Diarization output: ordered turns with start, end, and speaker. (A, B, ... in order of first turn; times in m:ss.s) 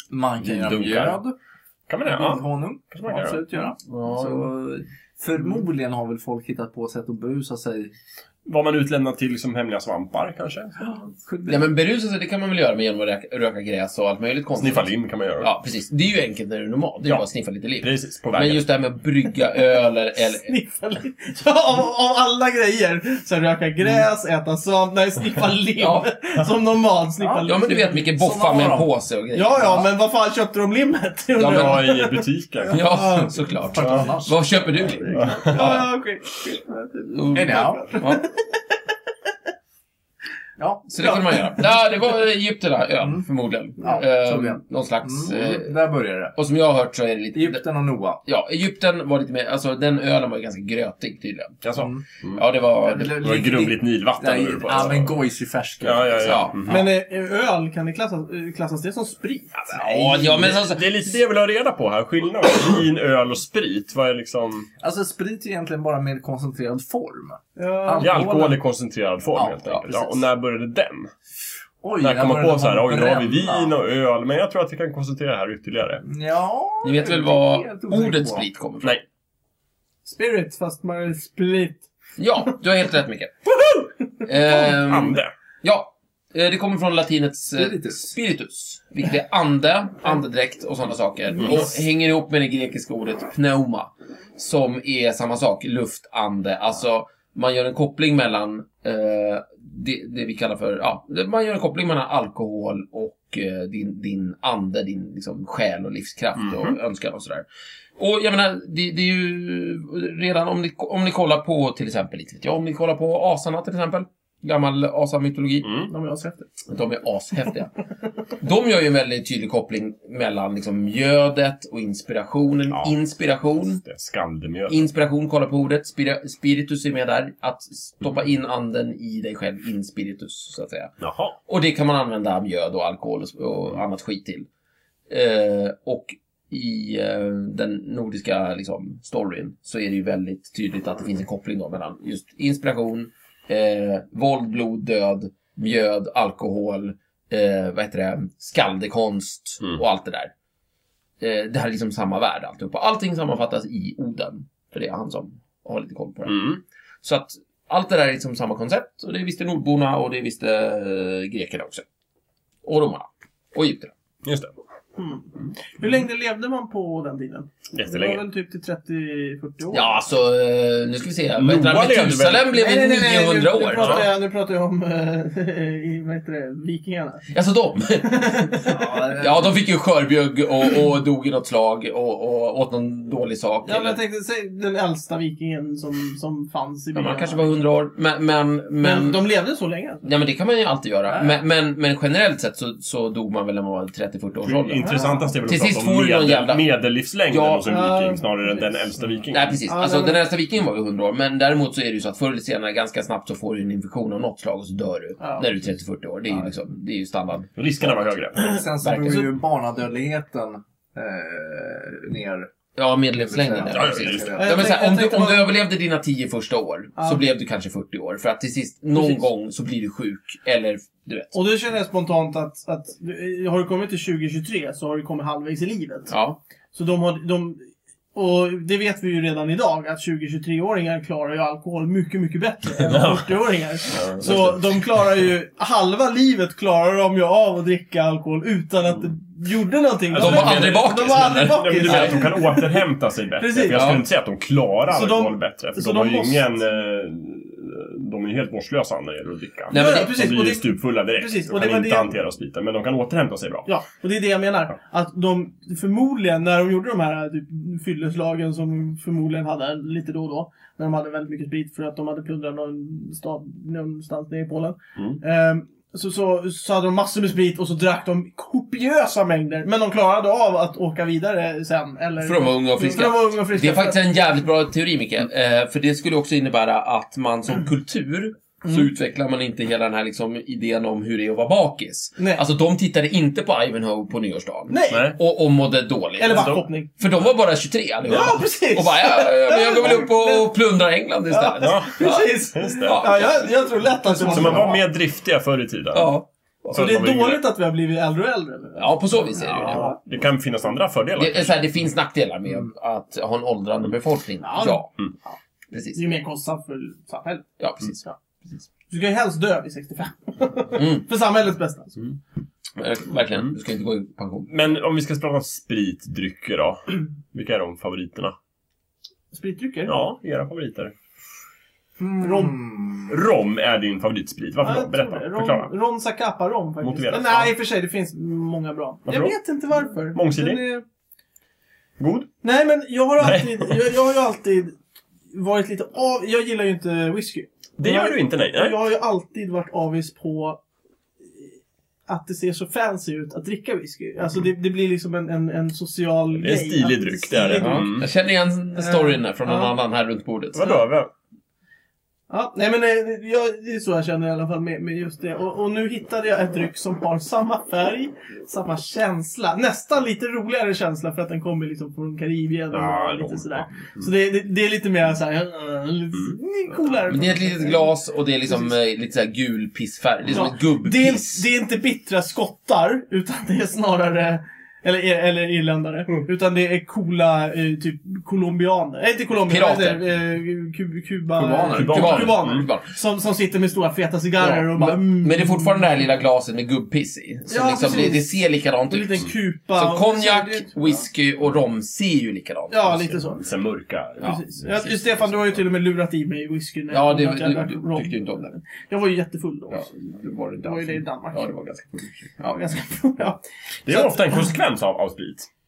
0:00.1-0:01.4 A
0:00.4-0:01.2 B
0:01.9-0:03.4 B
0:02.1-0:07.9 A
0:03.9-0:04.5 C
0:08.4-0:10.8 B
0:10.8-0:11.7 A
0:11.5-0:20.5 C
0:14.6-0:15.5 B
0:17.8-0:18.7 B
0:20.3-0:28.1 D
0:27.4-0:29.9 C
0:27.9-0:28.9 A
0:29.3-0:33.4 D
0:31.4-0:31.9 C
0:31.5-0:32.8 B
0:32.7-0:35.9 C
0:33.7-0:34.4 A
0:33.8-0:34.1 B
0:34.7-0:38.6 D
0:35.1-0:35.7 B
0:37.1-0:38.2 C
0:37.3-0:37.9 A
0:40.6-0:40.9 A
0:40.9-0:45.8 C
0:41.0-0:41.6 D
0:43.0-0:43.3 A
0:43.8-0:46.3 A
0:46.4-0:47.6 C
0:47.3-0:48.2 A
0:48.2-0:53.3 C
0:51.6-0:52.4 B
0:51.8-0:52.0 A
0:52.8-0:56.5 A
0:53.1-0:55.2 B
0:55.8-0:56.9 B
0:56.2-0:56.8 C
0:56.6-0:59.7 D
0:59.6-1:00.8 C
0:59.7-1:00.7 A
1:00.3-1:04.7 B
1:04.8-1:08.6 A
1:07.6-1:08.2 D
1:08.0-1:11.1 B
1:09.3-1:10.1 A
1:11.8-1:13.7 A
1:12.0-1:16.0 B
1:16.0-1:18.5 A
1:16.8-1:19.0 C
1:20.0-1:21.9 D
1:22.2-1:23.6 C
1:24.2-1:55.8 C
1:24.4-1:25.3 B
1:27.6-1:28.2 A
1:31.4-1:31.7 B
1:46.4-1:46.8 B
1:55.6-1:55.9 B
1:55.9-1:56.5 D
1:56.7-1:57.7 C
1:58.4-2:03.8 C
2:02.7-2:03.0 B
2:03.8-2:04.9 B
2:04.7-2:10.9 C
2:11.0-2:11.4 B
2:11.5-2:14.5 C
2:15.1-2:30.3 C
2:31.2-2:41.8 C
2:36.3-2:36.6 B
2:42.6-2:43.9 C
2:44.2-2:44.5 B
2:45.0-2:49.9 D
2:47.7-2:48.2 B
2:49.7-2:54.1 C
2:51.4-2:52.5 B
2:52.5-2:57.3 D
2:53.8-2:54.1 B
2:57.3-3:04.0 C
2:58.0-2:59.1 D
2:58.7-2:59.6 A
3:03.6-3:07.6 D
3:07.0-3:09.2 C
3:08.8-3:10.0 D
3:10.0-3:16.6 C
3:11.1-3:11.4 A
3:14.4-3:19.6 B
3:14.8-3:15.4 D
3:17.3-3:17.7 C
3:17.7-3:18.9 D
3:19.3-3:28.2 C
3:19.6-3:20.2 D
3:25.2-3:25.5 D
3:27.6-3:28.7 B
3:28.4-3:32.5 A
3:28.8-3:29.3 C
3:32.8-3:41.3 C
3:33.2-3:34.7 A
3:33.7-3:34.4 B
3:34.4-3:35.5 D
3:41.3-3:46.1 D
3:46.1-3:46.4 C
3:46.7-3:47.6 D
3:48.1-4:02.8 D
3:52.8-3:54.8 B
4:00.1-4:13.7 B
4:00.2-4:02.2 C
4:03.4-4:03.8 D
4:03.7-4:04.0 C
4:04.9-4:06.5 D
4:09.7-4:10.2 C
4:09.7-4:12.1 D
4:13.7-4:34.0 D
4:32.2-4:54.8 C
4:42.2-4:42.4 D
4:44.7-4:45.1 D
4:44.9-4:45.2 B
4:46.2-4:46.9 D
4:48.1-4:48.4 B
4:48.1-4:50.5 D
4:51.3-4:54.8 D
4:51.6-4:53.2 B
4:54.3-4:57.4 B
4:55.9-4:56.3 C
4:56.7-5:00.0 D
4:58.8-4:59.9 C
4:59.4-5:01.6 B
5:01.2-5:04.9 C
5:04.4-5:05.4 D
5:05.7-5:06.2 C
5:05.9-5:07.5 D
5:07.6-5:08.0 C
5:08.9-5:12.1 D
5:10.7-5:11.1 C
5:12.8-5:14.5 C
5:14.5-5:18.3 B
5:19.3-5:20.0 D
5:19.9-5:20.9 B
5:22.0-5:23.2 A
5:22.2-5:22.5 D
5:23.1-5:25.7 B
5:24.6-5:30.8 D
5:26.8-5:27.5 B
5:29.1-5:29.4 B
5:29.9-5:30.7 B
5:32.0-5:32.3 B
5:32.4-5:34.8 D
5:33.2-5:33.7 B
5:35.3-5:40.6 D
5:37.8-5:38.8 B
5:42.1-5:48.0 D
5:46.4-5:48.1 B
5:47.5-5:50.8 C
5:48.8-5:49.8 D
5:50.6-5:51.1 B
5:52.3-6:07.9 D
6:02.7-6:04.1 B
6:06.2-6:07.0 B
6:07.1-6:11.5 C
6:08.5-6:08.7 D
6:10.3-6:25.9 D
6:19.5-6:20.0 C
6:21.4-6:22.9 C
6:21.7-6:22.7 B
6:24.4-6:33.4 C
6:27.5-6:31.0 D
6:32.7-6:33.5 D
6:33.4-6:34.4 B
6:34.2-6:35.6 C
6:34.2-6:39.9 D
6:36.9-6:38.5 C
6:39.7-6:42.6 C
6:40.6-6:41.5 D
6:42.4-6:44.5 D
6:43.9-6:45.5 B